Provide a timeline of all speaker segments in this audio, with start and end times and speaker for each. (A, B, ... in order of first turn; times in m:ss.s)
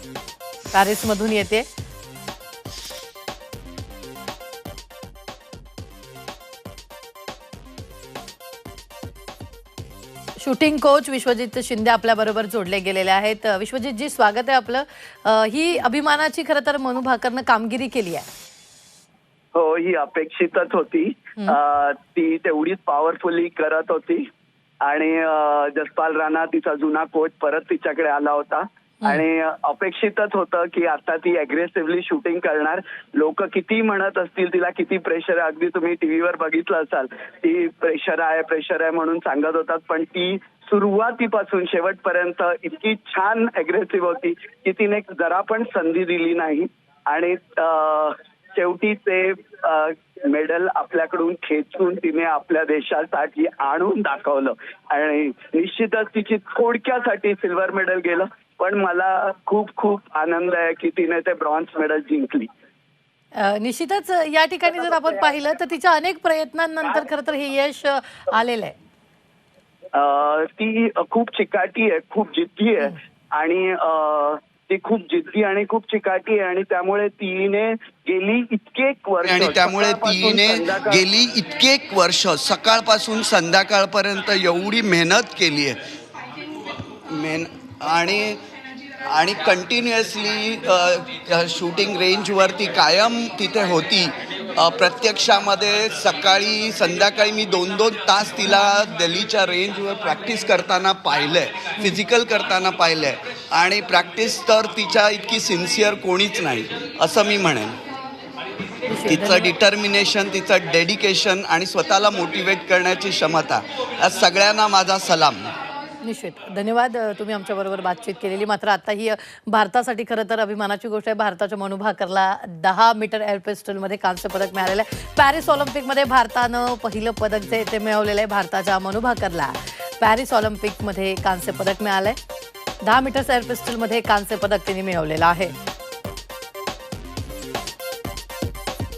0:00.7-0:01.7 A
0:10.4-0:18.3 A
0:19.5-0:24.2 B
0:24.8-1:02.5 B
1:03.4-1:08.8 A
1:09.9-1:21.0 B
1:19.2-1:25.8 C
1:27.1-1:28.4 C
1:29.0-1:47.8 C
1:48.9-1:49.5 A
1:49.1-1:55.5 C
1:56.0-2:12.2 A
2:12.8-2:15.5 A